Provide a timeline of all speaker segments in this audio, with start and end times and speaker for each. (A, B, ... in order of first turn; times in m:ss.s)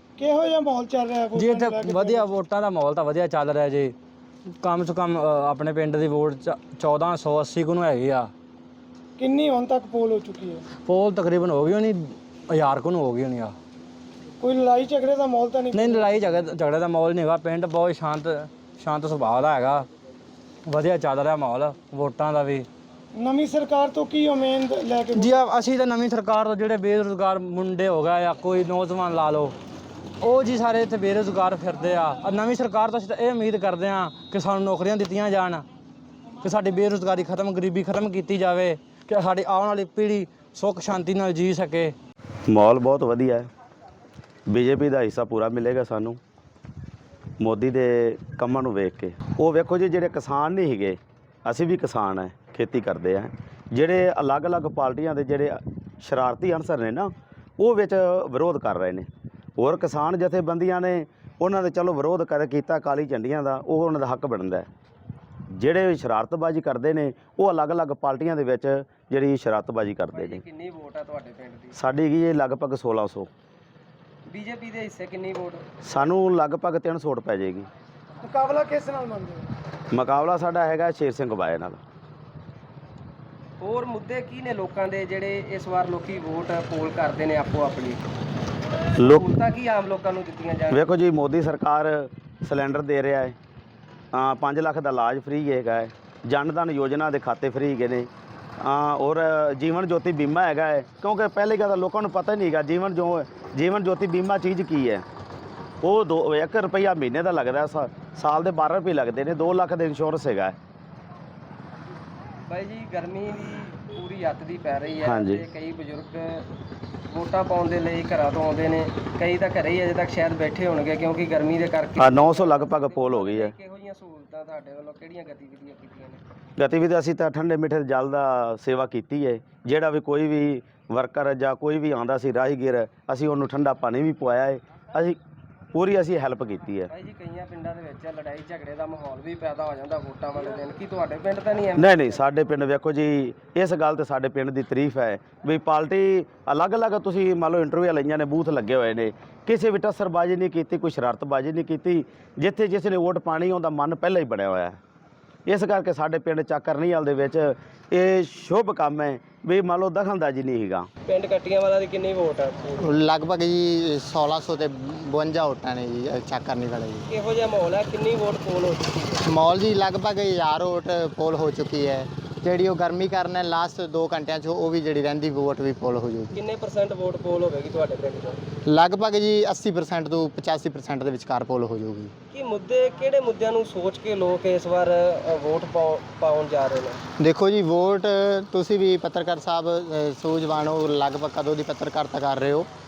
0:00.2-0:02.3 A
0:01.3-0:03.9 B
0:04.6-0:08.3 B
0:09.2-0:10.6 A
0:10.8-0:13.5 B
0:14.4-0:16.3 A
0:15.7-0:19.9 B
0:20.6-0:22.7 B
0:23.1-0:25.5 A
0:25.1-0:29.5 B
0:30.2-0:35.6 B
0:36.4-0:41.9 B
0:42.4-0:43.5 C
0:44.5-0:46.2 C
0:47.4-1:04.7 C
1:05.5-1:10.4 C
1:10.1-1:11.7 D
1:11.7-1:13.3 C
1:14.3-1:15.6 D
1:15.8-1:17.7 C
1:18.2-1:19.5 A
1:19.9-1:21.8 C
1:23.6-1:28.0 D
1:29.0-1:29.3 C
1:29.1-1:30.8 D
1:30.7-1:33.4 C
1:34.1-1:45.0 C
1:45.8-1:50.6 C
1:52.5-1:56.4 D
1:55.0-1:55.4 C
1:57.1-2:06.2 D
2:02.0-2:03.5 C
2:06.6-2:15.2 C
2:15.7-2:16.9 C
2:16.9-2:22.2 D
2:21.8-2:34.8 C
2:35.4-2:40.9 C
2:41.1-2:42.8 D
2:42.8-2:47.0 E
2:47.1-2:49.2 D
2:49.2-2:56.3 E
2:56.3-2:58.4 D
2:58.6-3:02.1 E
3:02.3-3:07.0 D
3:07.2-3:12.7 E